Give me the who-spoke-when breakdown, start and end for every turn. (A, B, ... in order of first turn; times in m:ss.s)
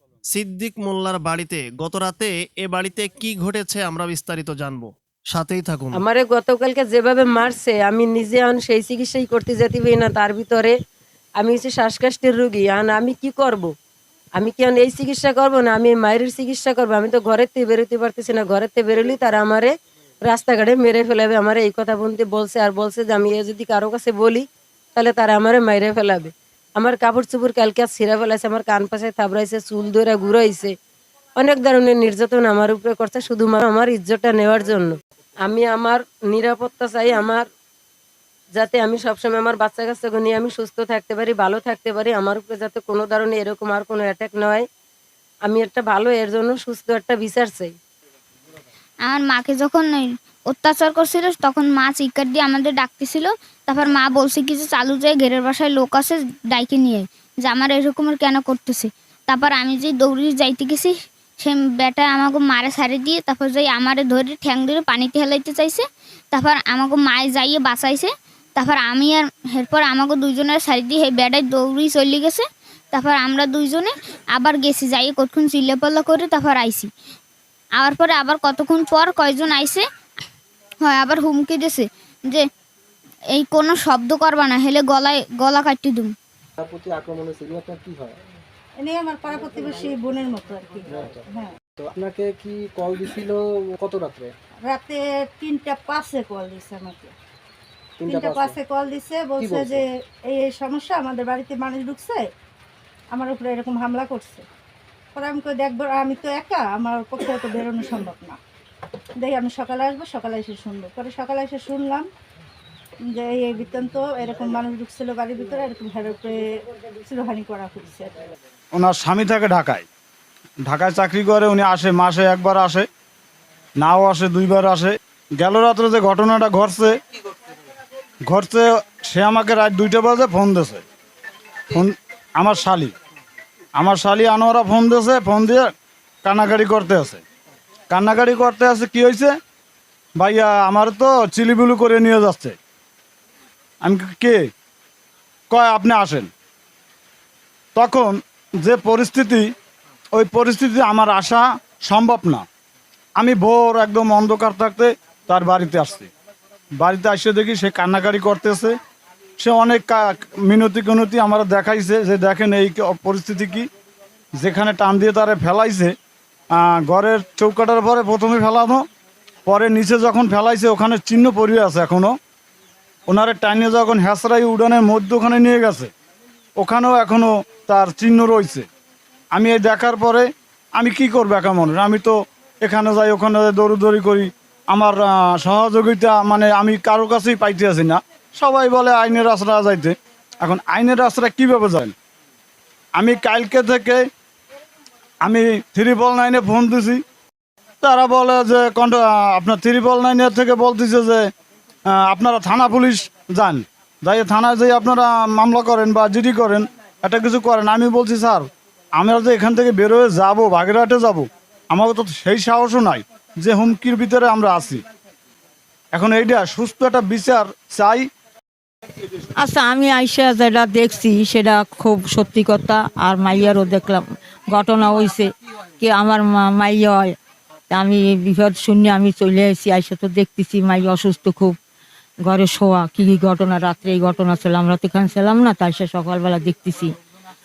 0:00.3-0:06.0 A
0:05.9-0:10.7 B
0:11.4-0:13.7 B
0:14.4-0:24.4 B
0:25.0-0:30.7 B
0:31.4-0:37.4 B
0:38.5-0:44.6 B
0:45.4-0:47.7 B
0:49.0-1:16.9 C
1:17.8-1:19.8 C
1:20.8-1:22.4 C
1:23.3-1:26.1 C
1:26.6-1:28.2 D
1:28.8-1:31.5 E
1:30.9-1:31.2 D
1:31.8-1:34.3 D
1:34.7-1:37.1 E
1:38.0-1:38.6 D
1:38.0-1:42.3 E
1:39.4-1:39.8 D
1:43.1-1:44.4 E
1:45.1-1:48.4 E
1:49.2-1:52.1 E
1:53.1-1:56.4 E
1:57.0-1:58.2 E
1:58.7-1:59.8 F
2:00.6-2:02.8 F
2:03.8-2:07.0 F
2:08.3-2:10.8 F
2:11.7-2:12.9 F
2:13.8-2:15.7 F
2:16.2-2:17.2 F
2:17.9-2:19.3 F
2:20.2-2:22.6 F
2:23.8-2:24.4 F
2:25.5-2:26.3 F
2:27.8-2:29.5 F
2:30.1-2:32.4 F
2:33.2-2:36.1 F
2:36.8-2:38.7 F
2:39.4-2:43.6 F
2:44.4-2:45.9 F
2:46.5-2:48.8 F
2:49.4-2:52.1 F
2:53.1-2:55.9 F
2:56.6-2:58.6 F
2:59.3-3:11.9 F
3:13.0-3:14.0 F
3:15.2-3:17.0 F
3:17.8-3:21.2 F
3:21.9-3:28.4 F
3:29.0-3:34.8 F
3:35.9-3:38.0 F
3:39.4-3:47.2 G
3:47.7-3:51.6 G
3:52.2-3:56.9 G